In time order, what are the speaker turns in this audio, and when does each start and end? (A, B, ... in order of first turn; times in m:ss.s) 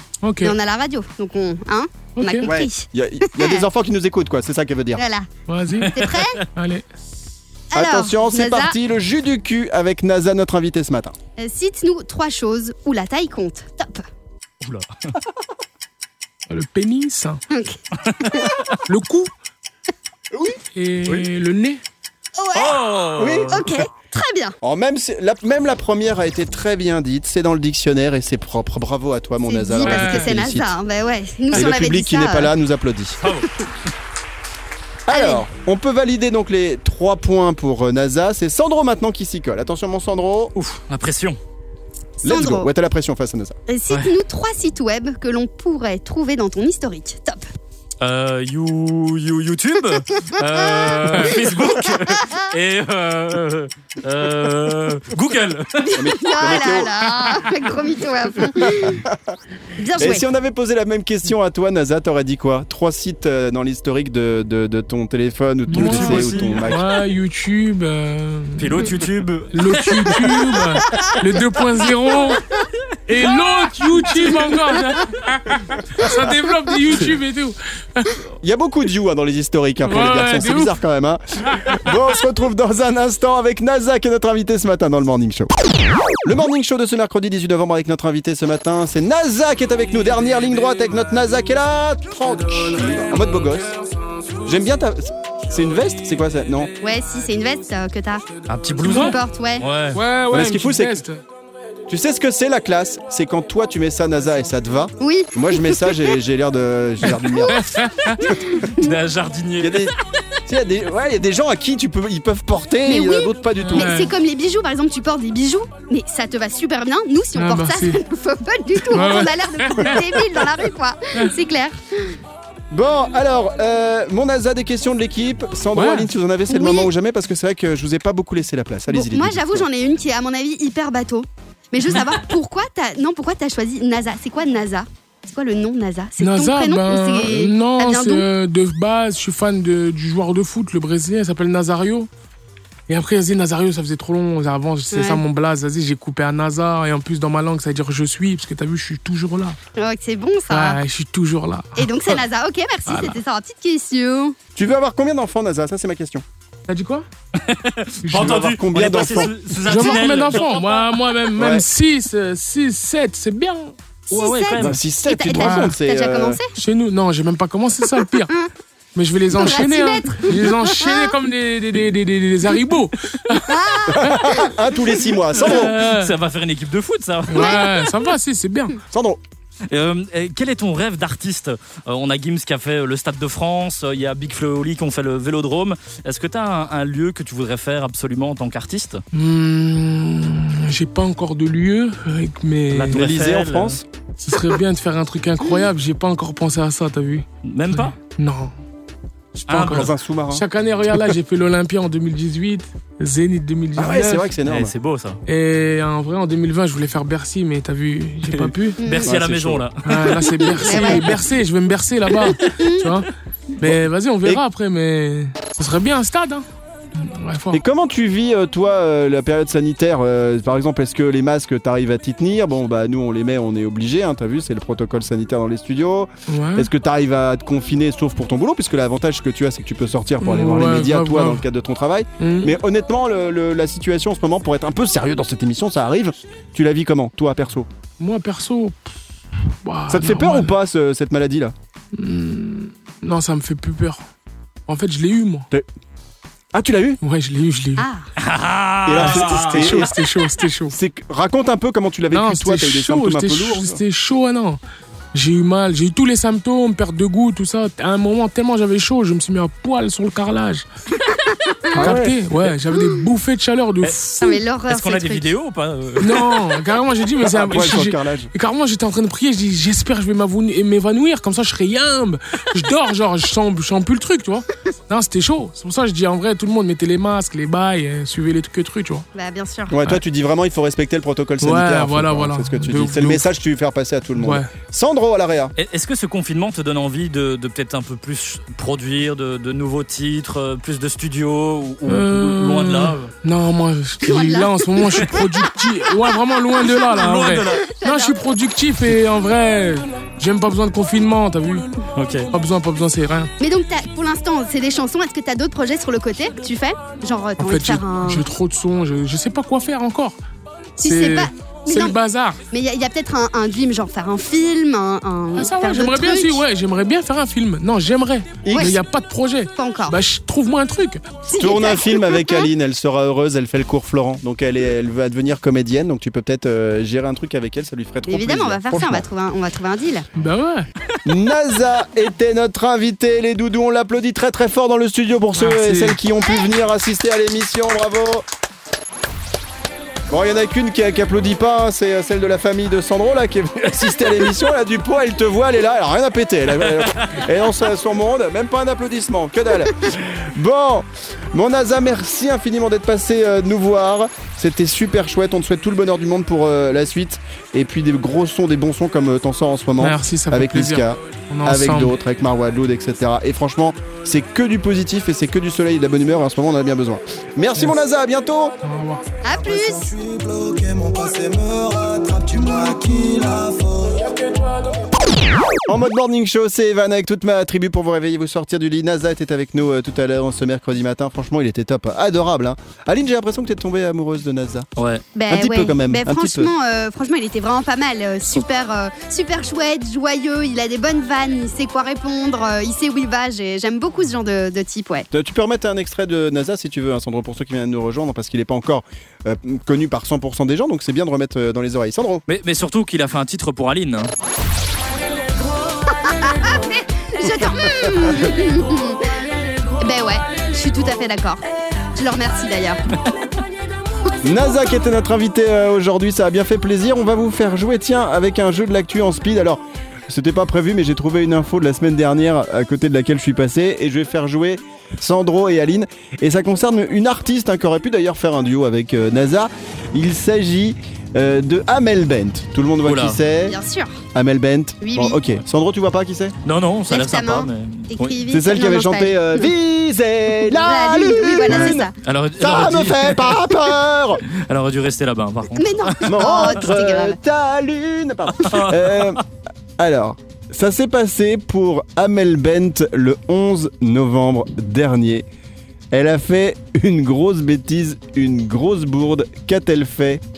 0:00.2-0:00.6 A
0:00.4-0:03.6 B
0:02.2-0:02.5 A
0:02.4-0:05.0 C
0:05.0-0:05.3 B
0:05.5-0:05.9 A
0:05.8-0:06.3 D
0:05.9-0:06.4 B
0:06.6-0:06.8 A
0:07.7-0:08.8 B
0:07.8-0:11.2 C
0:11.4-0:14.1 B
0:14.6-0:14.9 D
0:16.5-0:17.4 A
0:17.5-0:18.6 B
0:18.2-0:18.5 D
0:18.9-0:19.3 A
0:20.3-0:20.6 C
0:20.7-0:21.8 A
0:22.4-0:22.8 B
0:22.6-0:23.7 D
0:23.2-0:23.6 C
0:23.5-0:24.6 B
0:24.6-0:30.7 C
0:29.4-0:32.5 B
0:29.8-0:30.3 A
0:31.5-0:33.2 C
0:33.2-0:33.5 D
0:35.1-0:40.5 C
0:35.1-0:35.4 B
0:40.6-0:41.4 D
0:42.2-0:42.7 B
0:42.2-0:43.6 C
0:43.7-0:47.5 B
0:48.0-0:56.0 D
0:55.8-0:59.0 B
0:56.0-0:56.9 C
0:58.6-0:59.4 C
0:59.8-1:00.2 B
1:00.0-1:06.9 C
1:05.7-1:08.9 A
1:05.7-1:06.7 D
1:08.6-1:10.6 D
1:09.5-1:12.4 A
1:13.1-1:18.2 A
1:18.4-1:25.5 C
1:19.8-1:20.8 A
1:21.5-1:21.8 A
1:26.2-1:33.8 C
1:32.3-1:34.6 A
1:34.5-1:36.7 C
1:36.8-1:38.3 B
1:38.5-1:40.0 D
1:38.8-1:39.7 B
1:38.8-1:39.2 A
1:39.9-1:41.2 A
1:40.3-1:41.0 C
1:41.9-1:47.9 C
1:45.0-1:46.1 B
1:47.5-1:48.2 A
1:48.2-1:48.9 B
1:48.8-1:50.0 D
1:49.6-1:50.0 C
1:50.5-1:54.0 C
1:52.8-2:02.2 B
1:53.7-1:54.1 A
1:57.4-1:58.0 A
1:58.9-2:00.0 A
2:02.7-2:09.7 C
2:05.8-2:06.1 A
2:06.5-2:06.9 B
2:08.9-2:18.2 B
2:16.2-2:22.1 A
2:22.9-2:29.6 A
2:24.9-2:25.2 B
2:29.8-2:30.8 B
2:30.5-2:32.2 A
2:31.8-2:34.4 B
2:32.9-2:33.2 A
2:34.6-2:36.2 C
2:36.7-2:37.1 A
2:37.4-2:41.3 D
2:38.0-2:38.5 A
2:38.1-2:39.4 C
2:39.6-2:43.7 A
2:41.4-2:41.7 C
2:44.1-2:46.5 B
2:44.1-2:44.8 D
2:44.6-2:46.4 C
2:45.3-2:45.8 A
2:46.6-2:48.3 A
2:49.0-2:54.2 A
2:49.3-2:51.1 B
2:53.5-2:54.6 B
2:53.9-2:55.8 C
2:55.4-2:56.1 A
2:55.5-2:57.6 D
2:57.3-2:58.8 A
2:57.4-2:57.7 B
2:58.9-2:59.2 C
2:59.7-3:09.0 D
3:09.1-3:13.0 A
3:12.7-3:13.8 D
3:12.9-3:13.8 C
3:14.2-3:18.5 A
3:17.4-3:18.0 D
3:19.5-3:24.3 A
3:19.5-3:19.9 D
3:19.6-3:20.4 C
3:23.8-3:24.7 C
3:24.5-3:25.2 D
3:25.3-3:28.8 A
3:28.3-3:31.0 D
3:28.8-3:29.1 B
3:29.0-3:29.7 C
3:29.8-3:33.1 A
3:30.6-3:31.1 B
3:32.4-3:32.8 B
3:33.6-3:36.4 A
3:33.6-3:34.4 C
3:37.0-3:37.6 A
3:37.5-3:57.7 C
3:46.3-3:46.7 A
3:50.2-3:51.4 A
3:52.2-3:52.6 A
3:58.0-3:58.8 A
3:59.6-4:00.6 A
3:59.9-4:01.5 C
4:01.9-4:04.0 A
4:04.7-4:05.5 A
4:06.5-4:07.0 C
4:07.0-4:07.8 A
4:07.8-4:08.1 B
4:08.2-4:09.8 D
4:08.9-4:09.9 C
4:09.1-4:10.8 A
4:10.7-4:13.8 C
4:12.1-4:14.6 A
4:15.1-4:20.6 A
4:21.1-4:22.0 B
4:21.8-4:22.2 C
4:21.8-4:24.3 A
4:23.8-4:24.1 D
4:24.2-4:25.3 B
4:24.7-4:26.4 D
4:26.0-4:39.0 A
4:27.2-4:28.3 C
4:39.1-4:39.8 B
4:39.7-4:45.5 C
4:41.4-4:43.3 A
4:44.2-4:44.5 A
4:45.6-4:53.1 D
4:51.9-5:01.7 A
4:54.0-4:55.3 B
4:56.7-4:57.6 D
4:57.7-4:58.2 B
5:02.0-5:02.3 D
5:02.3-5:03.3 A
5:03.4-5:08.3 B
5:07.4-5:10.2 A
5:10.8-5:12.0 B
5:10.8-5:12.4 A
5:12.5-5:16.4 B
5:15.4-5:21.0 A
5:18.4-5:18.8 C
5:18.5-5:18.8 B
5:19.6-5:20.0 B
5:21.3-5:22.5 B
5:21.3-5:29.1 C
5:28.1-5:30.1 B
5:30.2-5:30.7 A
5:31.0-5:38.2 C
5:35.3-5:36.0 A
5:40.1-6:08.6 C
5:59.8-6:01.9 A
6:08.6-6:09.1 A
6:09.2-6:09.9 B
6:09.3-6:14.2 E
6:14.0-6:14.9 A
6:15.7-6:24.7 C
6:24.8-6:25.0 D
6:25.2-6:35.1 B
6:25.3-6:26.5 C
6:35.1-6:42.2 C
6:42.3-6:44.1 D
6:45.9-6:49.1 B
6:47.8-6:48.2 C
6:49.8-6:51.4 B
6:51.9-6:52.8 B
6:54.2-7:13.6 C
7:12.8-7:13.2 D
7:13.4-7:14.0 B
7:14.1-7:16.4 C
7:14.8-7:15.2 B
7:16.4-7:18.2 D
7:16.9-7:19.5 B
7:18.3-7:24.2 C
7:20.4-7:21.9 B
7:21.5-7:23.5 D
7:24.3-7:26.6 D
7:25.6-7:27.2 B
7:26.1-7:29.2 C
7:28.4-7:29.2 D
7:29.8-7:35.3 C
7:35.9-7:40.2 C